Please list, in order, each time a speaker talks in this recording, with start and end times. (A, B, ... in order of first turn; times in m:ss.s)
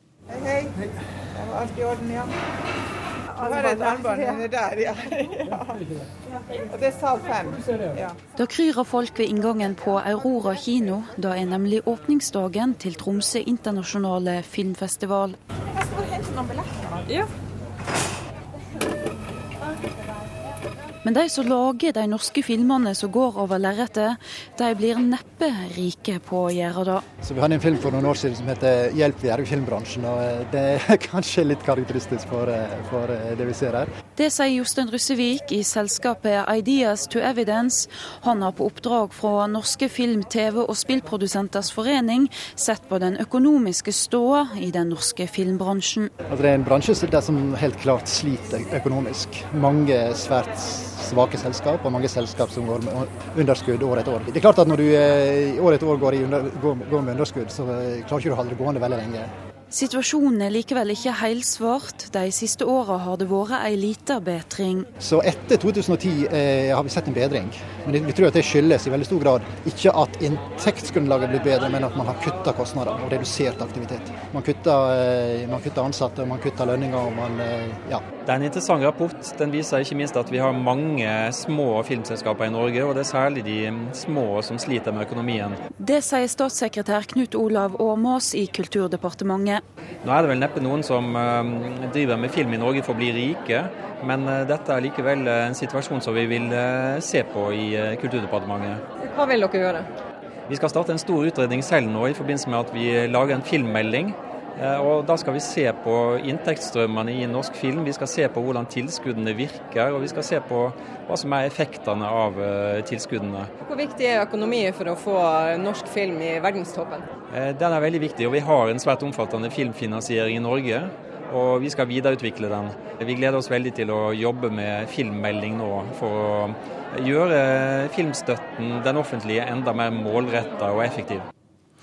0:00.4-0:00.7 A
0:01.3-0:02.3 A
0:03.4-0:05.7 A
0:06.7-0:08.1 A
0:08.4-0:15.3 B
0:21.0-0:27.0 B
0:27.2-0:33.9 C
0:34.2-0:46.1 B
0:46.3-0:59.3 C
0:59.7-1:04.8 B
1:05.0-1:18.0 C
1:18.2-1:25.6 D
1:25.8-1:29.6 B
1:30.0-1:38.8 D
1:39.0-1:39.9 E
1:40.5-1:53.5 D
1:53.6-1:57.0 E
1:57.3-2:11.2 D